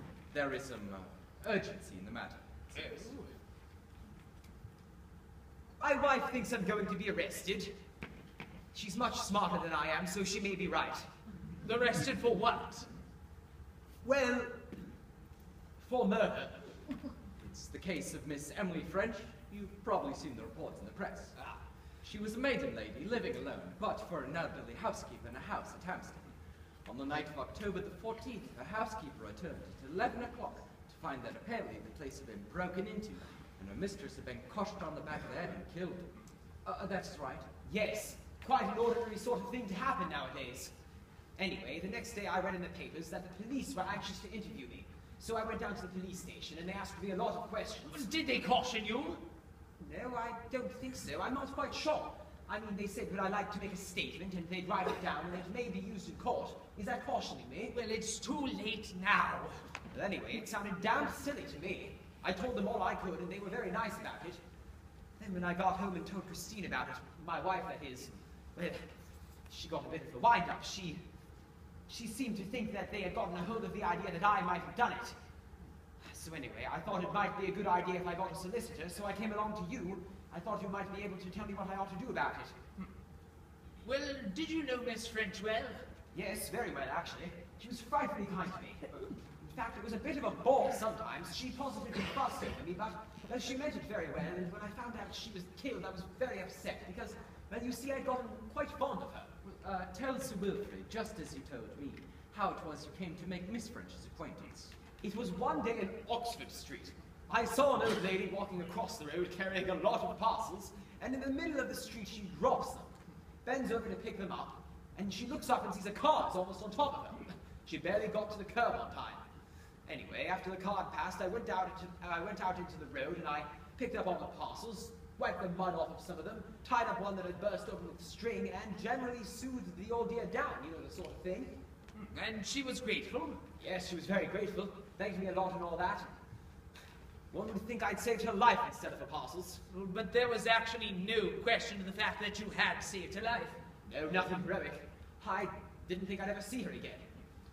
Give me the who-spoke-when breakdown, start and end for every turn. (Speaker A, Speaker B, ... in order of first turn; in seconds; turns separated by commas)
Speaker A: 0.3-3.0, Speaker B: 2.8-3.1, Speaker C: 5.8-7.7, Speaker C: 8.7-11.1, Speaker B: 11.6-12.9, Speaker C: 14.0-14.7, Speaker C: 15.8-16.8, Speaker A: 17.4-21.4, Speaker A: 22.0-26.3, Speaker A: 26.9-36.1, Speaker A: 36.6-37.5, Speaker C: 37.6-40.7, Speaker C: 41.4-48.0, Speaker B: 47.9-49.2, Speaker C: 49.8-57.7, Speaker B: 57.7-59.7, Speaker C: 59.9-64.4, Speaker C: 65.2-68.8, Speaker C: 69.5-71.0, Speaker C: 71.9-75.2, Speaker C: 76.0-82.5, Speaker B: 83.8-85.8, Speaker C: 86.1-88.8, Speaker C: 89.4-99.3, Speaker A: 99.4-104.8, Speaker C: 105.0-112.9, Speaker C: 113.4-119.2, Speaker C: 119.9-131.6, Speaker B: 132.1-133.4, Speaker C: 133.6-136.1, Speaker C: 137.3-139.6, Speaker B: 139.7-143.6, Speaker C: 143.9-147.1